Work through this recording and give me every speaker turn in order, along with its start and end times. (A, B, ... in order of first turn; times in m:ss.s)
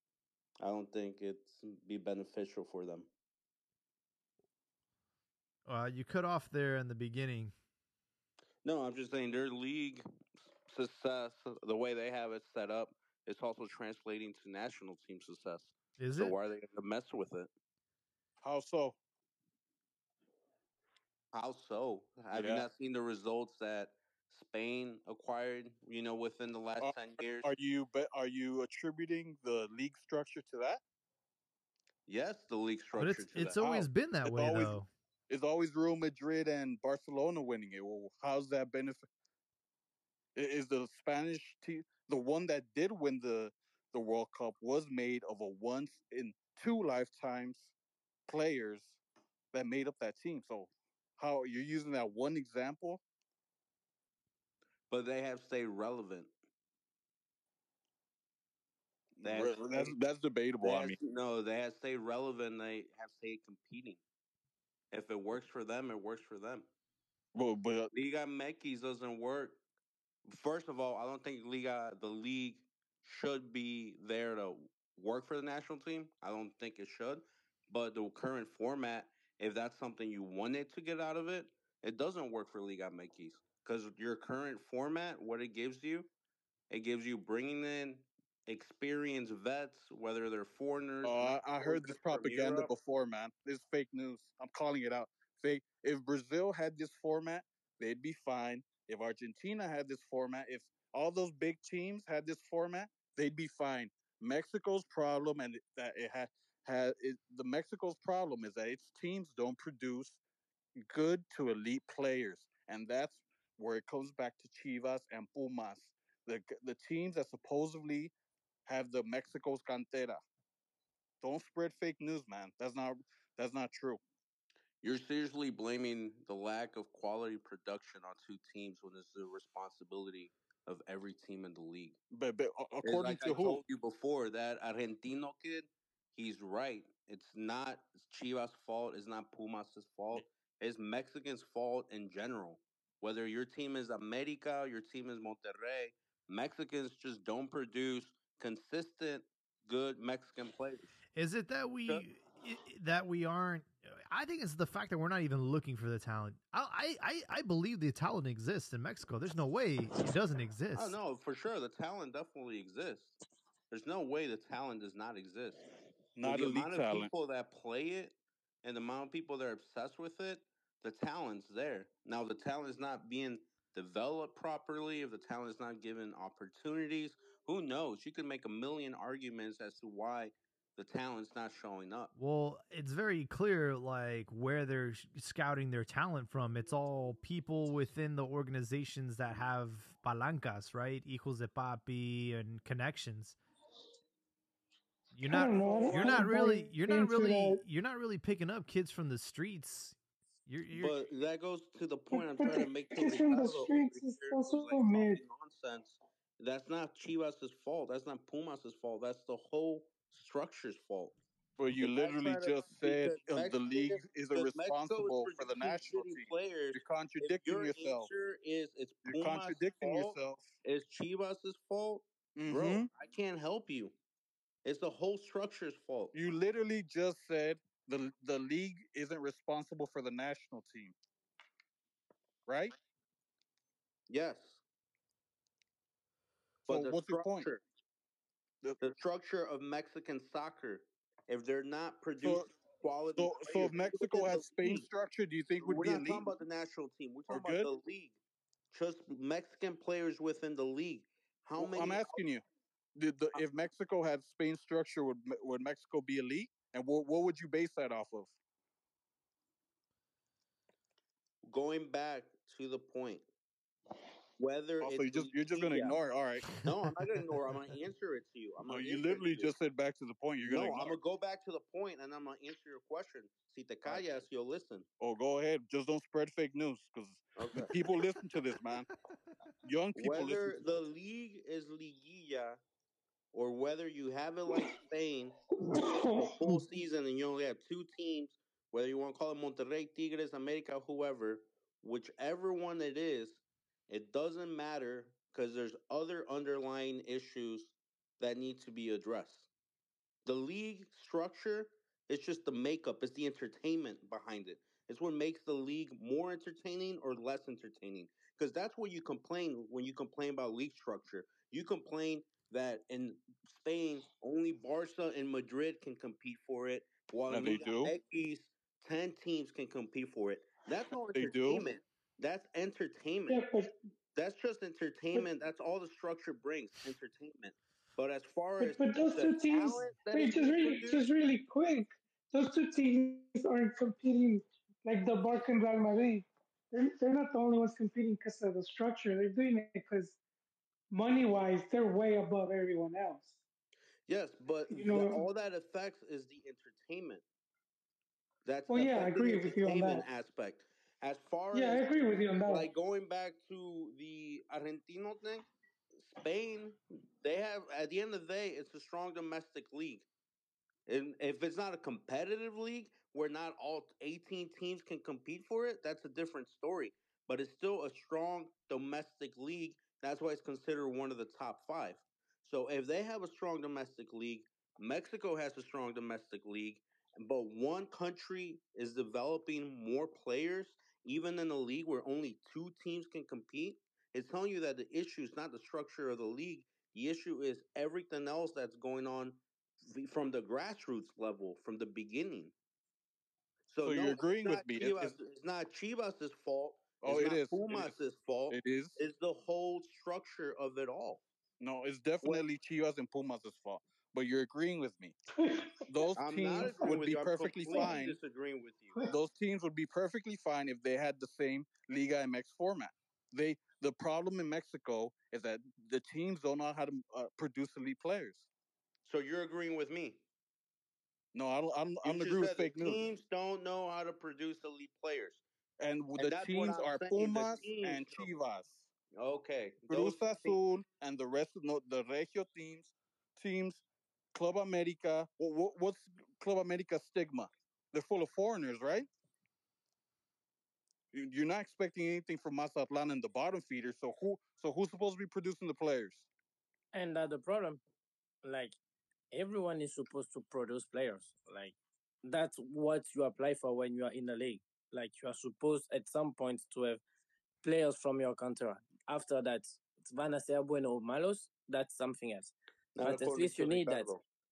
0:00.6-0:03.1 A
0:05.6-0:07.5 B
0:08.6-0:10.0 A
0:10.7-0:17.5 A
0:16.0-0:16.3 B
0:18.4-0:19.0 C
0:21.3-0:27.5 A
0:22.3-0:22.7 C
0:26.8-0:30.8 C
0:32.1-0:33.6 A
0:33.0-0:34.9 B
0:33.6-0:39.1 C
0:40.3-0:47.7 C
0:48.3-0:49.0 C
0:49.5-0:53.0 C
0:54.9-0:56.3 A
0:59.2-0:59.9 A
0:59.2-1:01.0 C
1:00.6-1:04.0 A
1:04.9-1:06.7 A
1:07.3-1:07.9 C
1:07.9-1:09.6 A
1:10.2-1:26.1 A
1:26.7-1:32.7 A
1:31.0-1:50.2 C
1:50.8-1:58.1 C
1:58.6-2:00.2 C
2:01.2-2:04.0 C
2:04.8-2:12.0 A
2:12.1-2:13.6 C
2:12.8-2:30.9 A
2:31.1-2:41.0 B
2:40.7-2:43.2 A
2:43.7-2:45.7 A
2:46.2-2:47.1 C
2:46.2-3:02.1 A
3:02.2-3:13.4 B
3:15.1-3:21.0 B
3:15.2-3:17.6 D
3:15.6-3:16.2 A
3:20.7-3:31.2 A
3:22.1-3:25.2 D
3:31.6-3:38.1 C
3:31.8-3:43.9 A
3:39.1-3:40.5 C
3:42.4-3:42.9 C
3:44.6-3:46.1 A
3:46.1-3:50.9 C
3:52.4-3:52.7 C
3:54.1-3:54.6 A
3:56.6-3:57.6 A
3:56.7-3:57.5 C
3:58.8-4:04.8 A
4:02.2-4:02.5 C
4:03.2-4:06.3 C
4:05.6-4:08.2 A
4:07.3-4:07.7 C
4:08.7-4:12.2 A
4:11.6-4:12.4 C
4:12.9-4:18.3 C
4:21.4-4:23.2 A
4:24.4-4:26.0 A
4:24.8-4:26.6 C
4:26.5-4:29.5 A
4:28.6-4:30.9 C
4:30.4-4:34.8 A
4:35.0-4:38.9 C
4:37.4-4:37.7 A
4:39.6-4:40.6 C
4:40.0-4:42.6 A
4:43.3-4:45.4 A
4:45.6-4:46.6 D
4:46.1-4:59.5 A
5:00.2-5:23.4 A
5:17.3-5:17.9 C
5:21.1-5:21.7 C
5:23.3-5:23.7 D
5:24.1-5:31.1 A
5:28.6-5:40.2 D
5:40.9-5:43.4 D
5:44.1-5:47.2 A
5:44.7-5:45.2 D
5:48.4-5:51.9 A
5:48.7-5:50.0 D
5:51.5-5:52.7 D
5:52.4-5:55.5 A
5:56.0-6:00.1 A
6:00.9-6:32.5 A
6:33.7-6:41.2 A
6:33.8-6:35.2 C
6:37.0-6:37.9 C
6:38.5-6:39.0 C
6:41.6-6:45.2 C
6:45.3-6:46.1 D
6:45.9-6:48.2 C
6:46.2-6:49.0 A
6:49.1-6:58.5 C
6:59.0-7:00.2 A
7:01.3-7:03.0 C
7:02.0-7:05.4 A
7:05.8-7:08.9 C
7:06.1-7:08.3 A
7:09.1-7:10.6 A
7:09.9-7:19.1 C
7:21.1-7:26.3 C
7:26.9-7:27.8 E
7:28.4-7:28.8 E
7:29.3-7:37.0 E
7:37.6-7:44.1 E
7:42.9-7:44.2 A